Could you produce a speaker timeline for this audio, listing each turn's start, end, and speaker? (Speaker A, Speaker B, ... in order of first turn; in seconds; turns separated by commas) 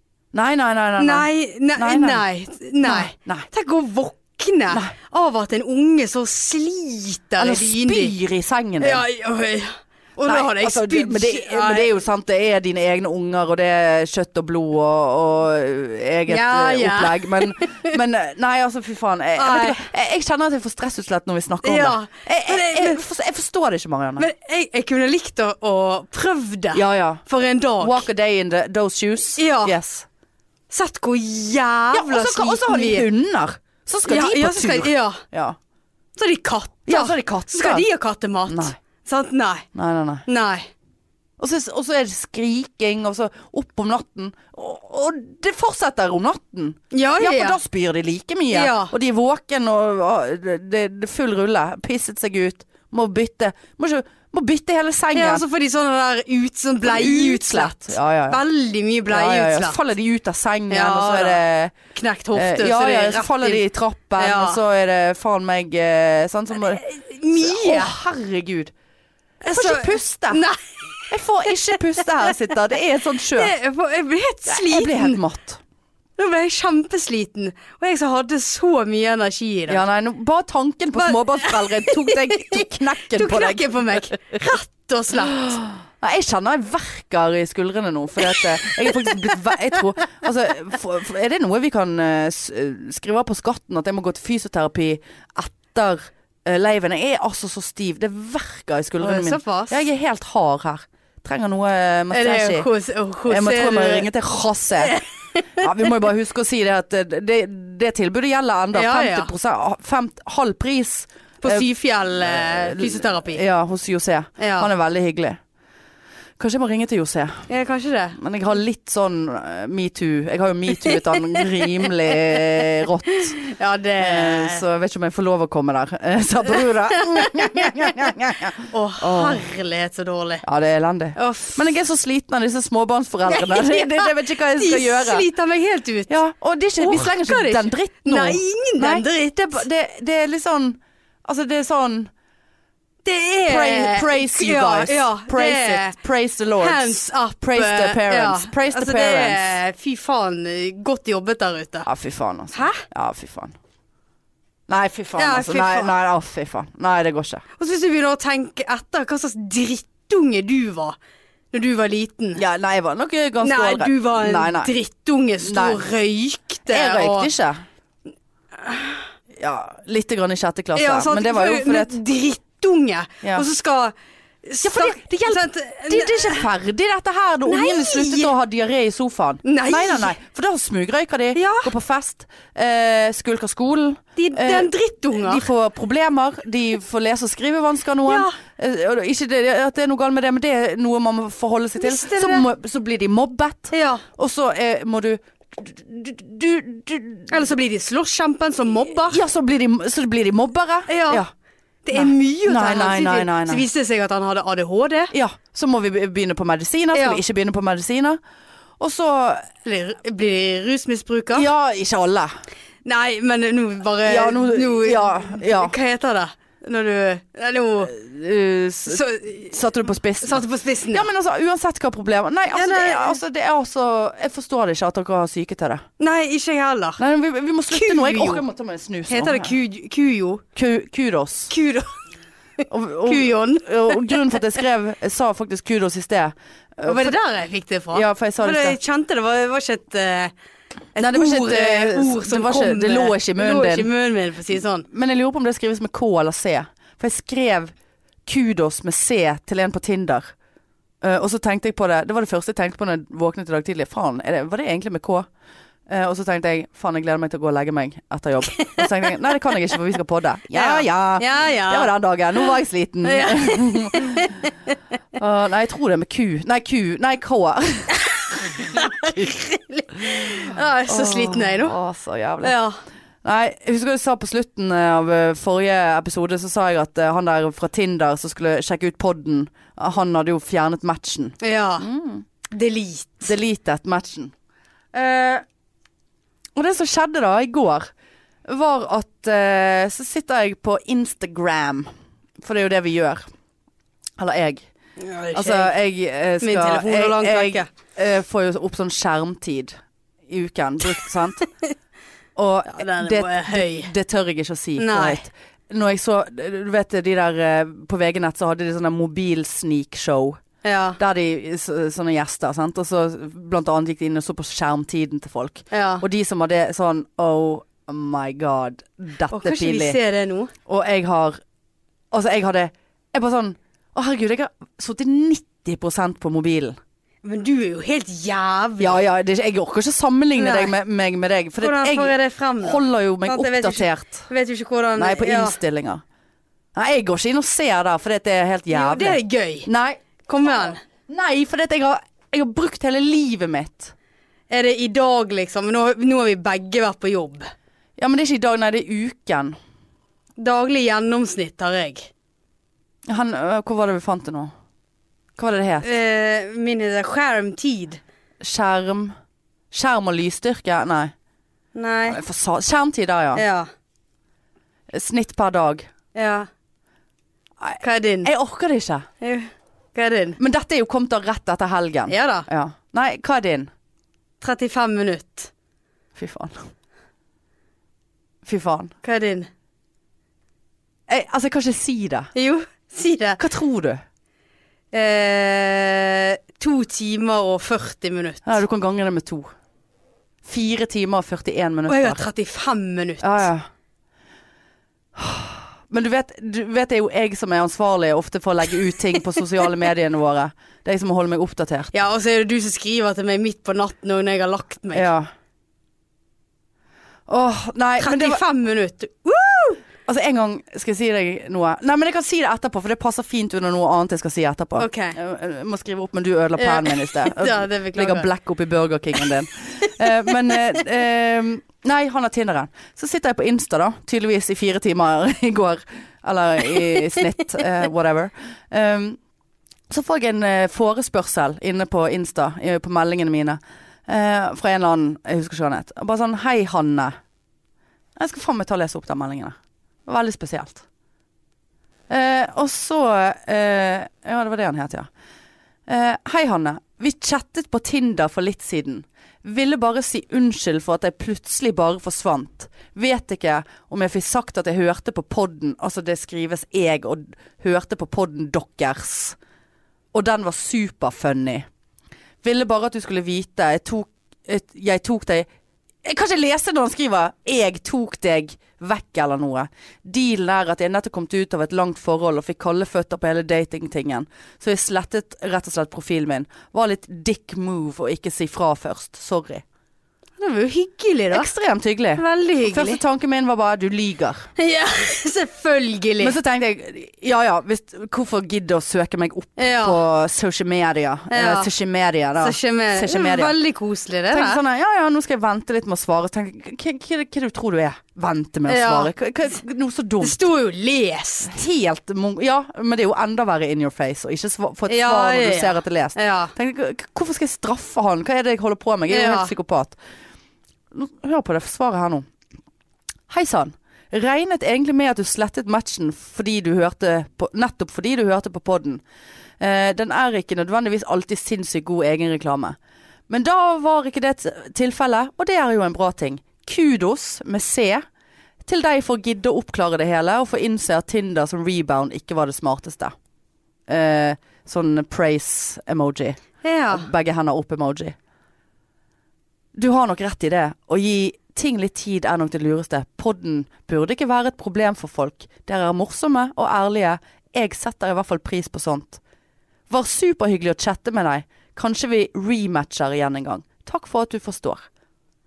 Speaker A: 0.3-2.2, Speaker B: 1.0-8.1, Speaker A: 2.8-3.5, Speaker A: 7.4-9.0, Speaker B: 8.8-11.9, Speaker A: 10.2-24.3, Speaker B: 16.3-17.9, Speaker B: 19.4-19.8, Speaker B: 21.6-23.0, Speaker B: 24.2-28.1, Speaker A: 26.7-27.2, Speaker A: 27.8-30.1, Speaker B: 29.4-29.8, Speaker B: 30.7-33.1, Speaker A: 31.9-35.6, Speaker B: 34.0-35.2, Speaker B: 36.2-39.6, Speaker A: 36.9-37.9, Speaker A: 38.5-38.8, Speaker A: 39.7-40.2, Speaker B: 40.3-40.7, Speaker A: 41.4-55.4, Speaker B: 46.9-47.6, Speaker B: 48.5-48.9, Speaker B: 55.1-59.8, Speaker A: 56.8-58.4, Speaker A: 59.1-61.7, Speaker B: 60.7-63.6, Speaker A: 62.3-68.7, Speaker B: 64.2-64.6, Speaker B: 66.7-67.9, Speaker B: 69.4-72.1, Speaker A: 69.5-70.4, Speaker A: 71.1-73.5, Speaker B: 73.3-75.2, Speaker A: 74.5-75.6, Speaker B: 76.2-79.8, Speaker A: 79.7-84.0, Speaker B: 81.0-85.5, Speaker A: 85.5-102.7, Speaker B: 88.3-89.2, Speaker B: 99.0-99.8, Speaker B: 102.1-104.1, Speaker A: 103.2-105.0, Speaker B: 104.8-105.7, Speaker A: 105.6-111.6, Speaker B: 108.7-109.3, Speaker B: 111.4-113.4, Speaker A: 112.2-115.4, Speaker B: 114.4-114.7, Speaker A: 116.4-117.4, Speaker B: 117.5-118.2, Speaker A: 118.2-129.4, Speaker B: 123.4-124.6, Speaker B: 127.0-127.7, Speaker B: 128.7-130.4, Speaker A: 130.4-135.2, Speaker B: 131.2-131.6, Speaker B: 133.3-136.2, Speaker A: 136.1-142.1, Speaker B: 136.8-139.7, Speaker B: 143.0-145.9, Speaker A: 143.4-149.6, Speaker B: 146.6-151.9, Speaker A: 151.8-153.5, Speaker B: 152.5-152.8, Speaker A: 154.7-157.4, Speaker B: 155.2-155.9, Speaker B: 157.6-161.0, Speaker B: 161.5-162.4, Speaker A: 162.3-164.7, Speaker B: 163.4-167.3, Speaker A: 165.4-165.8, Speaker A: 166.7-167.6, Speaker B: 168.6-169.1, Speaker A: 169.4-172.0, Speaker B: 170.7-173.9, Speaker B: 174.4-176.5, Speaker A: 174.6-197.4, Speaker B: 177.5-178.3, Speaker B: 179.4-180.1, Speaker B: 181.3-181.7, Speaker B: 184.2-185.4, Speaker B: 188.1-188.4, Speaker B: 191.8-192.5, Speaker B: 193.7-194.0, Speaker B: 197.3-199.2, Speaker A: 199.0-201.3, Speaker B: 200.9-201.2, Speaker B: 201.8-205.1, Speaker A: 201.9-203.6, Speaker A: 205.1-208.2, Speaker B: 206.9-207.2, Speaker A: 208.8-209.5, Speaker B: 209.6-211.5, Speaker A: 211.3-212.3, Speaker B: 212.8-217.9, Speaker A: 214.1-215.7, Speaker A: 217.8-225.8, Speaker B: 218.9-219.6, Speaker B: 220.2-221.1, Speaker B: 222.5-223.2, Speaker B: 226.0-227.0, Speaker A: 227.0-229.5, Speaker B: 227.7-228.4, Speaker B: 229.1-230.4, Speaker A: 230.6-231.5, Speaker B: 231.5-231.9, Speaker A: 232.7-237.2, Speaker B: 233.1-234.4, Speaker B: 236.8-240.3, Speaker A: 237.9-238.8, Speaker B: 240.9-244.8, Speaker A: 241.0-243.9, Speaker A: 244.9-247.7, Speaker A: 248.2-250.3, Speaker A: 251.0-255.3, Speaker A: 255.9-264.4, Speaker B: 258.6-258.9, Speaker B: 260.5-261.9, Speaker B: 263.0-264.5, Speaker A: 265.1-267.9, Speaker B: 268.4-271.8, Speaker A: 268.6-269.3, Speaker A: 270.0-272.5, Speaker B: 272.4-272.8, Speaker A: 273.2-282.2, Speaker B: 281.4-281.9, Speaker B: 282.5-283.3, Speaker A: 283.2-284.3, Speaker A: 284.9-285.4, Speaker A: 286.6-287.9, Speaker A: 288.5-291.9, Speaker A: 292.4-293.2, Speaker A: 294.2-294.6, Speaker B: 295.0-295.7, Speaker A: 295.3-299.7, Speaker B: 296.4-297.7, Speaker A: 300.3-301.4, Speaker A: 302.4-310.4, Speaker B: 302.7-303.9, Speaker B: 304.8-305.2, Speaker B: 310.6-311.0, Speaker A: 311.0-320.0, Speaker B: 315.7-316.0, Speaker B: 319.3-320.5, Speaker A: 320.7-321.4, Speaker A: 322.1-326.8, Speaker B: 327.2-329.0, Speaker A: 328.8-334.3, Speaker B: 330.4-330.7, Speaker B: 331.6-335.6, Speaker A: 335.0-336.0, Speaker A: 336.7-343.9, Speaker B: 338.7-339.7, Speaker B: 340.3-340.8, Speaker B: 344.5-347.5, Speaker A: 348.0-349.6, Speaker B: 350.4-352.1, Speaker A: 353.1-354.5, Speaker A: 355.4-355.9, Speaker B: 355.8-358.0, Speaker A: 358.4-359.1, Speaker A: 359.7-361.1, Speaker B: 361.7-362.2, Speaker A: 362.1-363.4, Speaker B: 363.3-363.7, Speaker A: 364.9-365.9, Speaker B: 366.1-366.5, Speaker A: 367.6-369.1, Speaker B: 367.8-368.3, Speaker B: 369.2-370.4, Speaker A: 370.4-373.7, Speaker B: 372.1-372.5, Speaker B: 374.4-375.5, Speaker A: 376.1-376.5, Speaker A: 378.4-378.9, Speaker B: 379.0-379.5, Speaker A: 381.1-382.3, Speaker B: 382.3-383.4, Speaker A: 383.4-384.0, Speaker B: 384.9-388.6, Speaker A: 388.4-389.5, Speaker A: 390.4-392.3, Speaker B: 391.9-393.5, Speaker A: 393.2-393.6, Speaker A: 395.1-401.9, Speaker B: 401.9-405.1, Speaker A: 404.9-405.3, Speaker A: 407.3-408.4, Speaker B: 408.0-409.8, Speaker A: 410.1-429.2, Speaker B: 414.8-415.1, Speaker B: 416.6-418.3, Speaker A: 429.9-437.1, Speaker A: 438.2-440.8, Speaker A: 442.1-445.1, Speaker A: 445.9-459.4, Speaker A: 460.1-461.7, Speaker A: 462.4-465.5, Speaker A: 466.0-479.6, Speaker B: 480.4-481.5, Speaker A: 481.3-484.5, Speaker B: 482.2-483.0, Speaker B: 484.6-486.4, Speaker A: 486.2-493.6, Speaker B: 489.6-490.0, Speaker B: 491.3-491.7, Speaker B: 492.4-494.6, Speaker A: 494.3-500.4, Speaker B: 498.7-499.1, Speaker B: 500.2-501.6, Speaker A: 501.4-510.0, Speaker B: 504.9-506.5, Speaker B: 509.1-509.5, Speaker A: 510.9-512.2, Speaker A: 513.3-519.0, Speaker A: 519.6-522.8, Speaker A: 523.3-528.0, Speaker A: 528.6-533.1, Speaker A: 533.9-538.1, Speaker B: 536.6-537.1, Speaker A: 539.8-549.2, Speaker A: 549.9-554.8